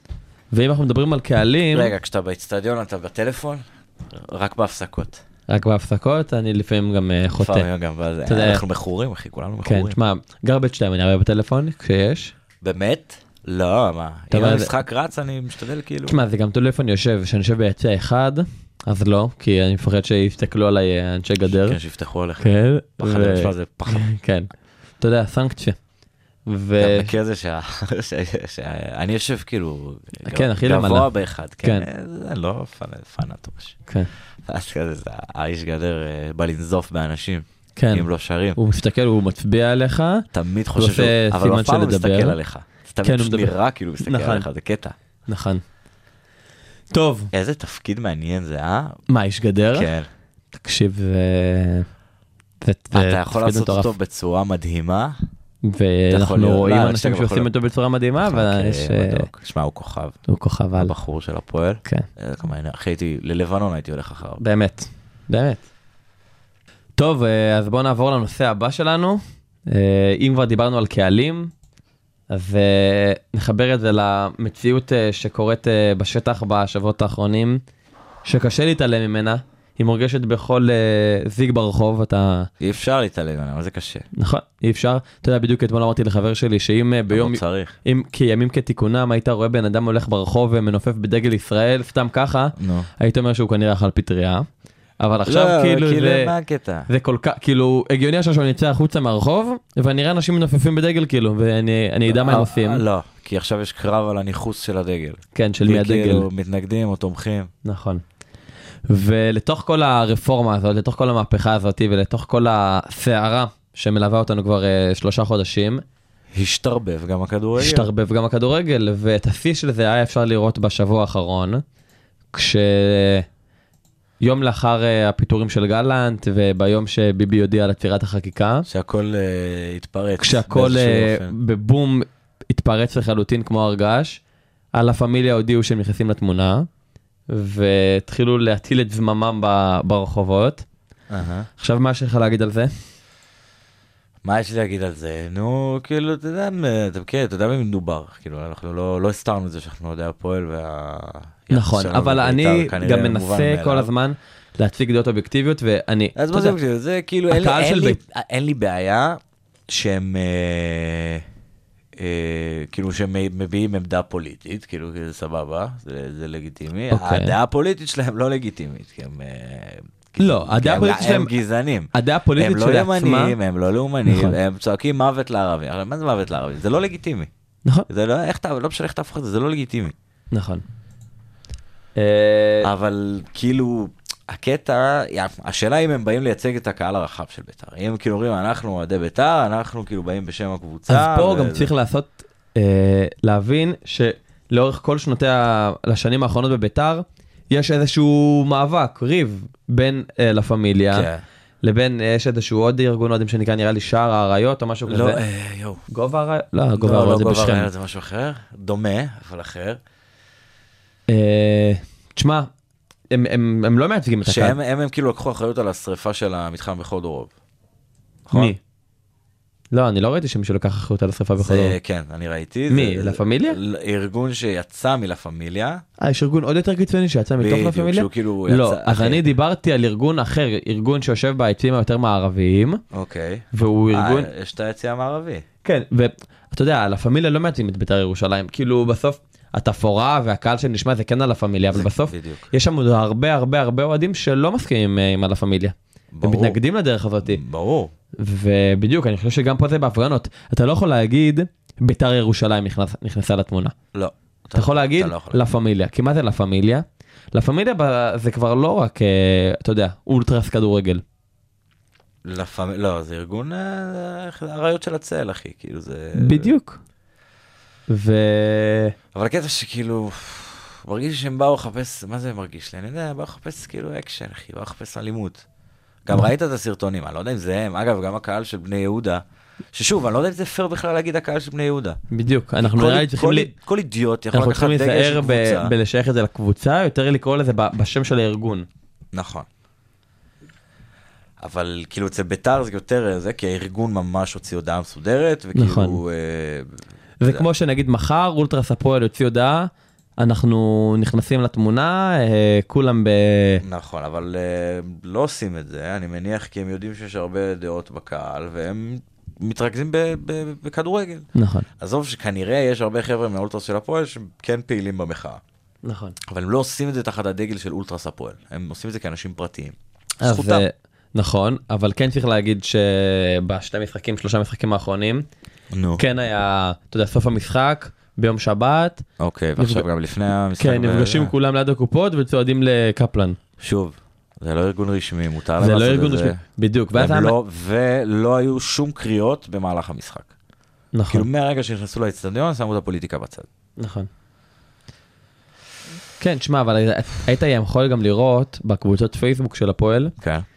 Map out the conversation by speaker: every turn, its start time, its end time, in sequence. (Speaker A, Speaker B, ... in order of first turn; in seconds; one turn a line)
Speaker A: 0.5-1.9
Speaker B: 1.7-5.2
Speaker A: 5.5-7.7
Speaker B: 7.3-10.0
Speaker A: 8.2-8.6
Speaker A: 9.6-12.3
Speaker B: 12.6-16.2
Speaker A: 14.3-14.7
Speaker A: 16.1-21.8
Speaker B: 21.4-24.1
Speaker A: 22.4-25.8
Speaker A: 26.4-27.1
Speaker B: 26.8-33.8
Speaker A: 30.2-31.9
Speaker B: 34.4-38.6
Speaker A: 37.8-42.4
Speaker B: 40.3-44.9
Speaker A: 43.0-44.5
Speaker A: 45.3-45.6
Speaker A: 46.9-47.3
Speaker B: 47.3-49.0
Speaker A: 49.1-49.9
Speaker B: 49.7-50.1
Speaker A: 50.5-51.9
Speaker A: 52.6-53.9
Speaker B: 52.9-55.2
Speaker A: 55.6-59.3
Speaker B: 56.1-57.5
Speaker B: 58.2-60.2
Speaker A: 60.3-60.9
Speaker B: 60.8-64.4
Speaker A: 64.4-65.6
Speaker A: 67.0-71.5
Speaker A: 72.3-77.6
Speaker A: 78.2-82.5
Speaker B: 82.6-84.1
Speaker A: 84.1-94.5
Speaker B: 87.1-87.7
Speaker B: 92.6-92.9
Speaker A: 95.0-96.3
Speaker B: 95.2-96.9
Speaker A: 96.9-102.8
Speaker B: 102.0-107.5
Speaker A: 105.3-106.3
Speaker A: 107.6-108.0
Speaker A: 108.9-115.8
Speaker B: 116.3-117.9
Speaker A: 117.6-121.6
Speaker A: 122.3-123.2
Speaker A: 124.2-128.7
Speaker B: 128.7-131.3
Speaker A: 130.2-134.2
Speaker A: 134.7-136.7
Speaker A: 137.3-140.6
Speaker B: 141.1-141.5
Speaker A: 141.6-142.7
Speaker B: 144.2-153.9
Speaker A: 151.5-156.6
Speaker B: 156.1-161.2
Speaker A: 157.3-158.0
Speaker B: 161.9-177.3
Speaker A: 166.9-167.3
Speaker A: 170.2-171.3
Speaker A: 171.9-173.4
Speaker A: 174.1-174.4
Speaker B: 177.9-179.9
Speaker A: 180.3-180.6
Speaker A: 181.9-182.7
Speaker B: 182.6-191.7
Speaker A: 190.9-201.1
Speaker B: 200.9-201.2
Speaker A: 201.6-205.2
Speaker B: 204.9-205.8
Speaker A: 205.9-207.7
Speaker B: 206.8-209.8
Speaker A: 211.1-212.5
Speaker A: 213.1-214.6
Speaker B: 214.2-217.3
Speaker B: 218.2-218.6
Speaker A: 218.3-218.6
Speaker A: 219.7-221.8
Speaker B: 221.4-225.8
Speaker A: 222.7-223.6
Speaker A: 226.0-232.8
Speaker B: 227.4-229.3
Speaker B: 232.9-235.4
Speaker A: 233.5-234.3
Speaker A: 235.6-247.4
Speaker B: 241.7-242.5
Speaker B: 246.1-246.6
Speaker B: 247.2-247.9
Speaker A: 248.2-253.7
Speaker B: 253.9-255.4
Speaker A: 254.5-261.0
Speaker B: 262.2-266.5
Speaker A: 266.1-266.8
Speaker A: 267.9-268.9
Speaker B: 269.1-275.4
Speaker B: 276.0-282.0
Speaker A: 282.1-283.5
Speaker B: 282.6-285.7
Speaker A: 284.3-288.7
Speaker B: 289.1-289.5
Speaker B: 291.4-297.4
Speaker A: 295.5-296.0
Speaker A: 297.2-303.6
Speaker B: 303.6-311.3
Speaker A: 311.3-311.7
Speaker B: 311.8-315.4
Speaker A: 315.8-316.1
Speaker B: 316.2-320.6
Speaker A: 320.2-325.3
Speaker B: 325.7-326.0
Speaker A: 326.0-329.0
Speaker B: 329.2-331.3
Speaker A: 329.6-329.8
Speaker A: 330.6-333.4
Speaker B: 333.6-336.4
Speaker A: 335.6-337.3
Speaker B: 336.9-340.3
Speaker A: 340.9-341.3
Speaker B: 341.1-343.5
Speaker A: 343.8-344.1
Speaker A: 346.2-350.1
Speaker B: 350.2-350.4